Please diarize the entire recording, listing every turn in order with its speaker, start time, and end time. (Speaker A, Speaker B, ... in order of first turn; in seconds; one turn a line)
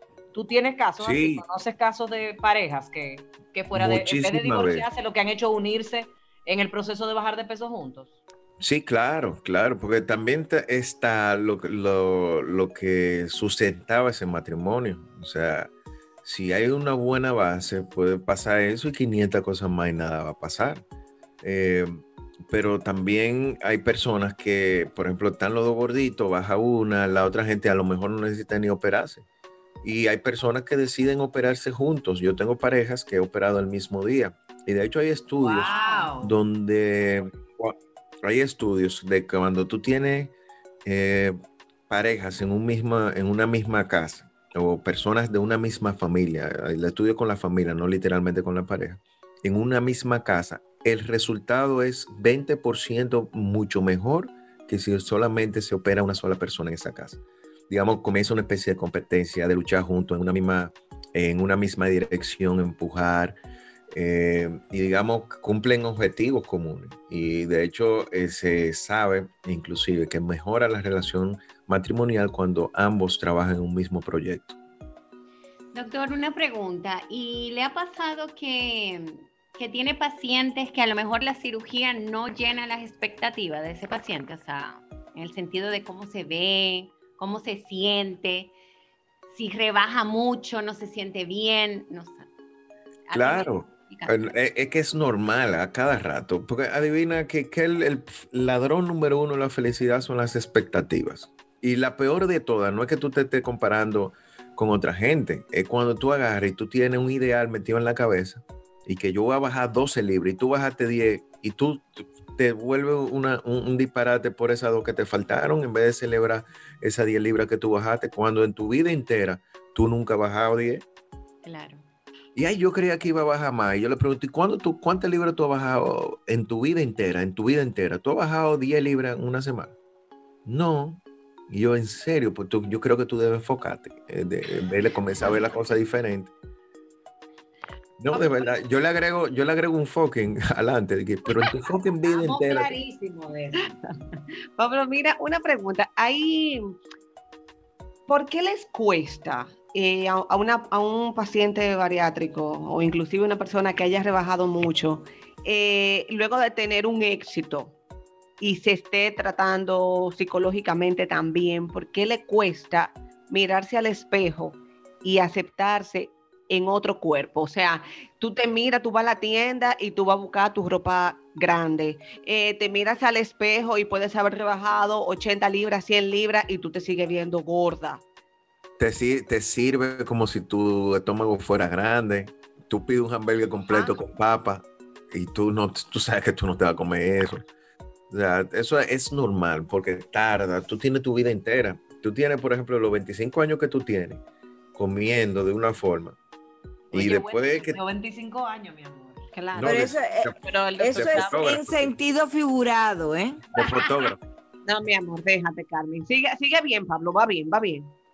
Speaker A: 0.3-8.2
Speaker B: 1.0-1.4
Speaker B: 3.7-4.9
Speaker B: 8.6-15.7
Speaker B: 16.2-20.8
Speaker B: 21.4-29.2
Speaker B: 29.8-40.3
Speaker A: 35.4-36.4
Speaker B: 40.9-41.4
Speaker B: 41.9-63.4
Speaker B: 63.9-74.6
Speaker C: 75.7-88.5
Speaker C: 89.3-92.3
Speaker C: 93.1-94.3
Speaker B: 93.1-120.8
Speaker C: 121.5-121.8
Speaker B: 122.4-129.7
Speaker B: 130.5-136.3
Speaker B: 138.0-142.8
Speaker A: 142.0-143.6
Speaker D: 144.6-146.8
Speaker D: 148.1-157.8
Speaker D: 158.4-178.0
Speaker B: 178.8-187.4
Speaker B: 188.1-194.2
Speaker B: 194.8-196.2
Speaker B: 196.9-197.8
Speaker A: 196.9-199.2
Speaker D: 199.3-201.6
Speaker B: 199.5-200.4
Speaker E: 199.6-203.4
Speaker B: 200.9-201.9
Speaker B: 203.5-204.2
Speaker D: 203.6-203.8
Speaker D: 204.7-207.9